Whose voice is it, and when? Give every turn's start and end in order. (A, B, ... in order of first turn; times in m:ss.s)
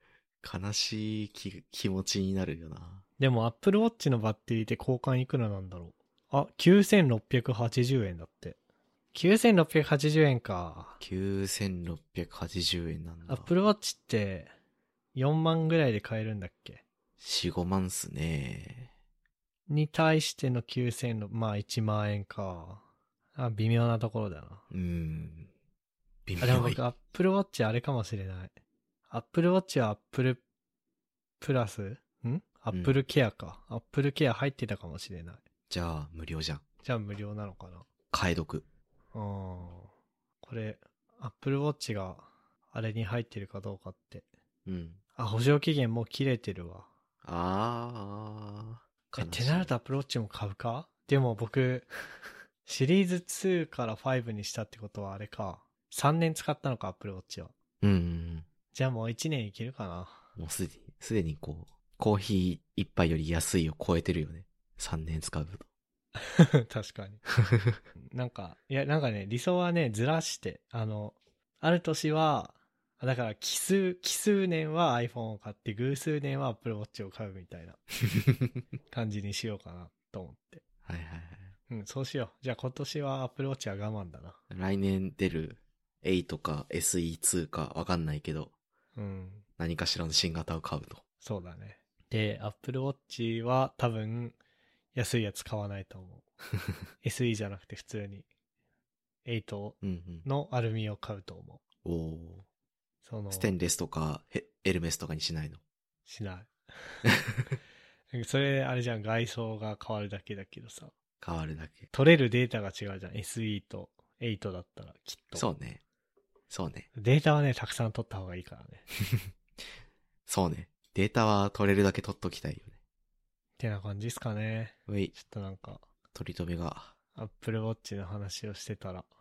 0:00.4-0:03.0 A
0:03.2-0:08.6 B
0:09.1-0:11.0 B
0:11.0-0:13.5 A
0:13.3-0:14.5 B
0:15.2-0:16.8 B
0:17.2-0:18.9 A
0:19.7-0:22.8 B
0:23.4-0:24.6 B
0:24.7-0:25.5 A
0:26.3-0:26.8 A
0:26.4-0:28.5 B
0:29.1-0:30.4 B
0:31.4-0:35.4 B
0:35.7-0:36.6 A
0:36.8-0:37.9 B
0:38.1-0:38.7 A
0:39.1-0:39.9 B
0:40.4-0:44.3 B
0:44.7-0:45.0 A
0:45.2-0:46.9 B
0:47.2-0:49.7 A
0:49.1-0:51.9 B
0:52.6-0:57.5 B
0:57.8-0:58.5 A
0:58.7-1:00.3 B
1:00.4-1:05.7 A
1:06.2-1:07.2 B
1:07.5-1:07.8 A
1:08.1-1:17.8 B
1:18.9-1:20.6 B
1:20.8-1:21.5 A
1:21.7-1:24.4 B
1:24.5-1:28.5 A
1:29.0-1:29.4 B
1:29.6-1:31.0 A
1:31.2-1:34.4 B
1:34.9-1:36.3 B
1:37.0-1:38.3 B
1:39.2-1:41.6 B
1:39.8-1:40.2 A
1:41.8-1:42.4 A
1:43.0-1:43.5 B
1:43.3-1:45.6 A
1:46.1-1:47.1 B
1:48.1-1:50.9 B
1:51.2-1:51.9 A
1:51.9-1:55.5 B
1:55.4-1:55.8 A
1:56.5-1:56.9 A
1:57.0-1:58.9 B
2:00.3-2:02.8 A
2:03.6-2:05.8 B
2:04.9-2:05.1 A
2:06.1-2:06.9 A
2:07.2-2:09.1 B